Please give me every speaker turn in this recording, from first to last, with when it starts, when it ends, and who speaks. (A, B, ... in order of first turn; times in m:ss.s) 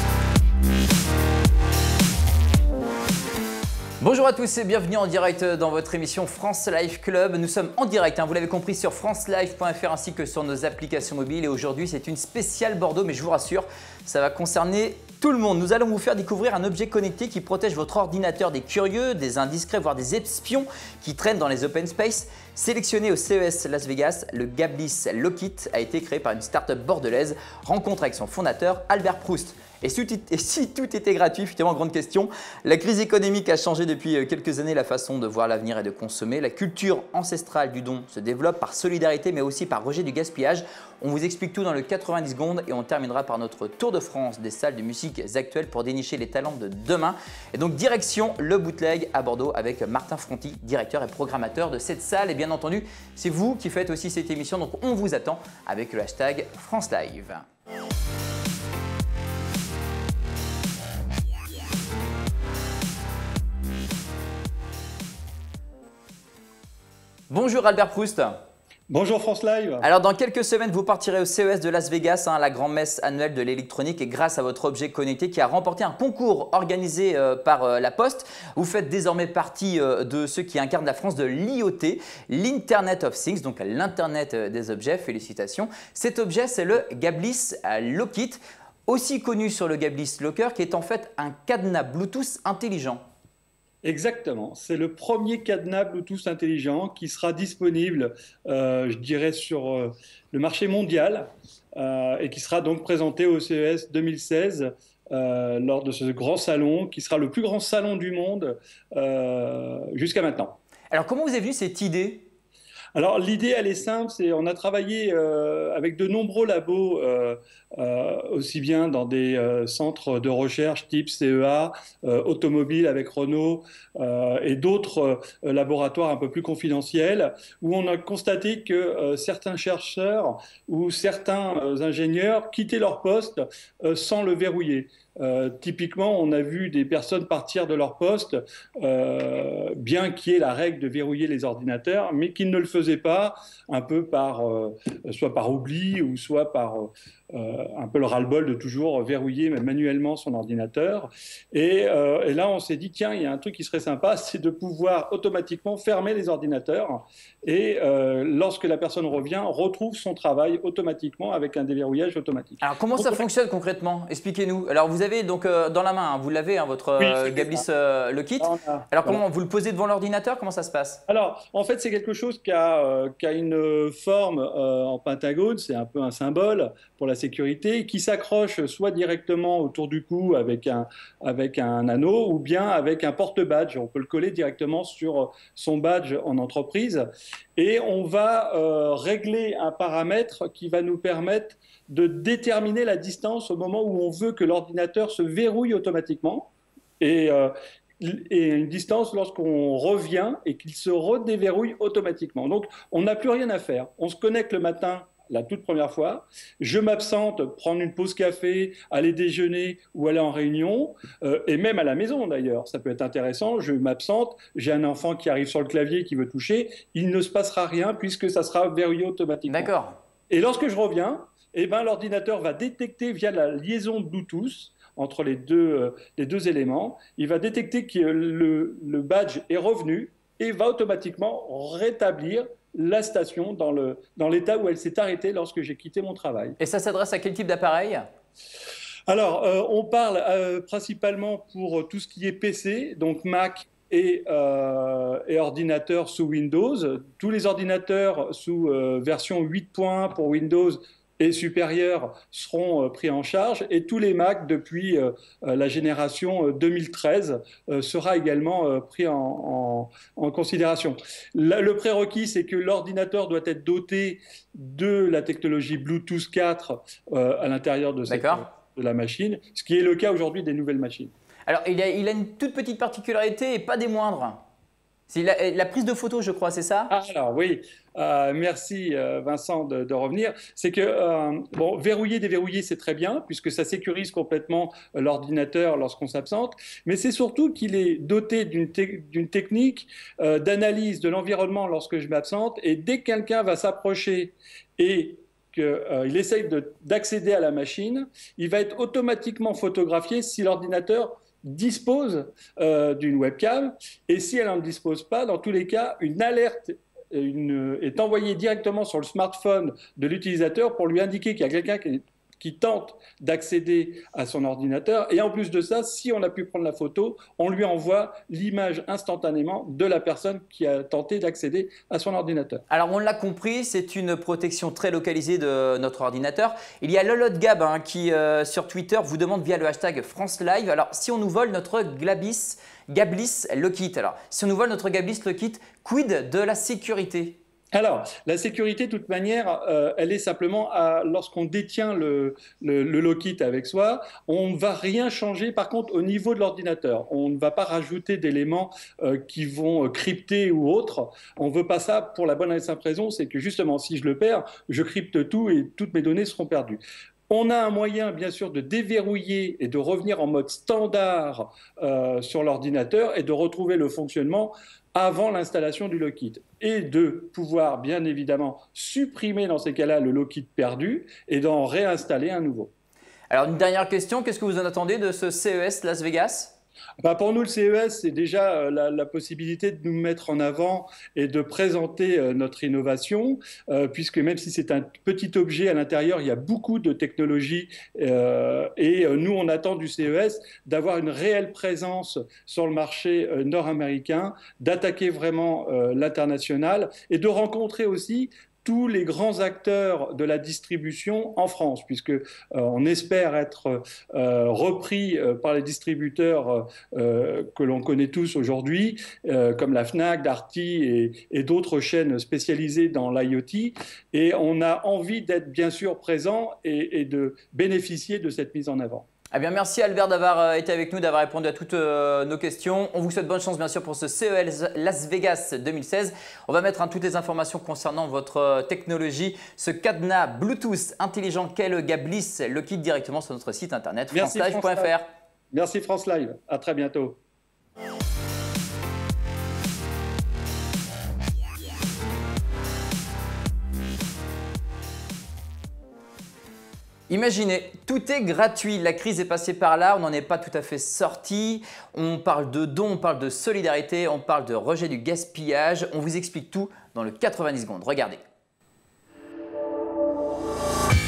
0:04.0-0:57.5 A
1:07.3-1:08.4 A
1:08.9-1:09.9 B
1:09.8-1:33.1 A
1:33.8-1:50.6 B
1:50.9-1:52.3 A
1:53.0-2:43.2 B
2:42.6-2:51.0 A
2:47.0-2:47.6 B
2:48.4-2:49.2 B
2:51.1-3:07.1 B
3:07.6-3:39.7 B
3:39.5-3:40.0 A
3:40.3-3:56.6 B
3:56.6-3:58.0 A
3:59.1-4:31.1 B
4:28.1-4:28.4 A
4:31.5-4:34.4 A
4:35.1-4:36.9 A
4:36.9-5:22.6 B
5:22.7-5:37.4 A
5:37.7-6:12.7 B
6:13.3-6:16.5 A
6:17.0-6:59.1 B
6:59.3-7:15.1 A
7:14.1-7:14.9 B
7:15.5-7:17.2 B
7:27.1-7:38.2 A